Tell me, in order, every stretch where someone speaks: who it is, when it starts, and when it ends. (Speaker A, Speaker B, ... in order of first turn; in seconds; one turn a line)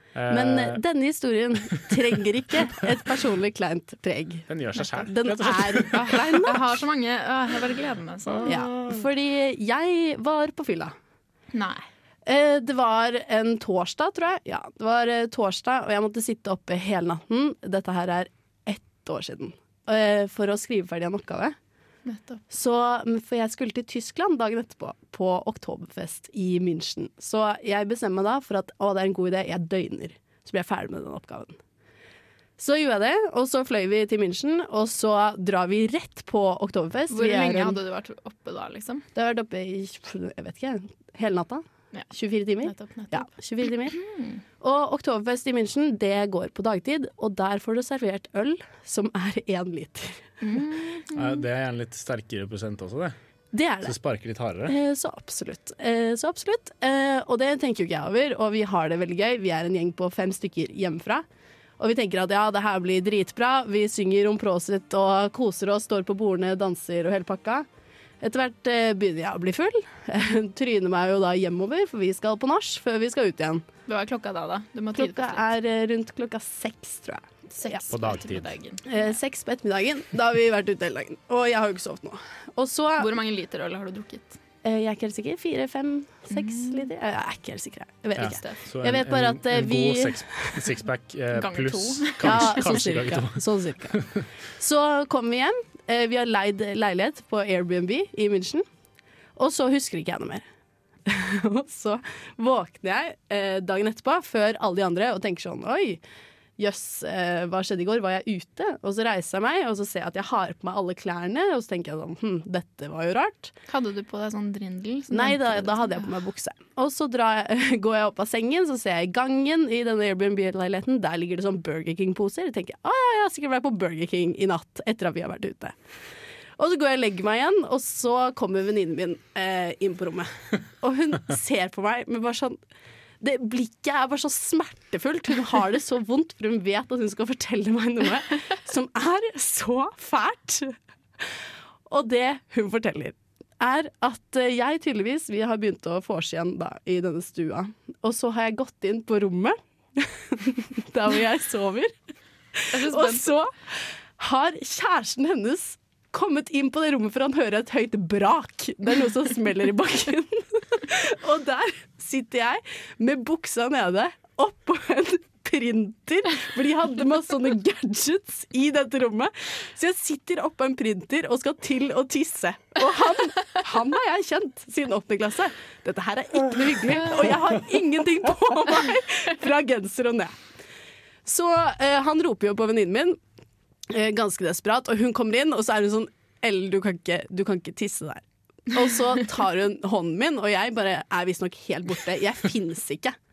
Speaker A: 0.1-0.8
Speaker B: 0.3-6.6
Speaker A: 4.5-6.1
Speaker C: 5.9-8.5
Speaker A: 8.2-9.0
Speaker B: 8.4-10.9
Speaker C: 11.5-11.8
Speaker B: 12.2-21.6
Speaker C: 22.0-22.4
Speaker B: 22.5-31.6
Speaker B: 32.6-37.8
Speaker C: 37.1-39.0
Speaker B: 39.1-44.0
Speaker C: 42.6-44.4
Speaker B: 44.6-50.2
Speaker C: 50.4-51.4
Speaker A: 51.1-53.1
Speaker B: 53.5-54.0
Speaker A: 53.8-54.7
Speaker B: 54.6-61.2
Speaker B: 61.8-67.7
Speaker B: 68.2-73.6
Speaker C: 73.9-75.5
Speaker B: 75.0-77.8
Speaker C: 77.6-79.1
Speaker A: 77.9-78.5
Speaker B: 78.8-83.1
Speaker C: 83.0-84.4
Speaker B: 84.6-90.7
Speaker C: 86.3-86.9
Speaker A: 88.2-94.2
Speaker C: 88.2-88.6
Speaker C: 91.3-92.8
Speaker B: 92.2-94.0
Speaker B: 94.6-98.7
Speaker B: 99.3-100.4
Speaker B: 101.0-106.0
Speaker B: 106.6-113.5
Speaker C: 113.7-116.0
Speaker B: 115.1-125.7
Speaker B: 126.6-132.6
Speaker B: 133.2-140.8
Speaker B: 141.9-151.9
Speaker B: 152.5-180.3
Speaker C: 152.7-153.3
Speaker B: 181.2-183.2
Speaker B: 183.9-193.2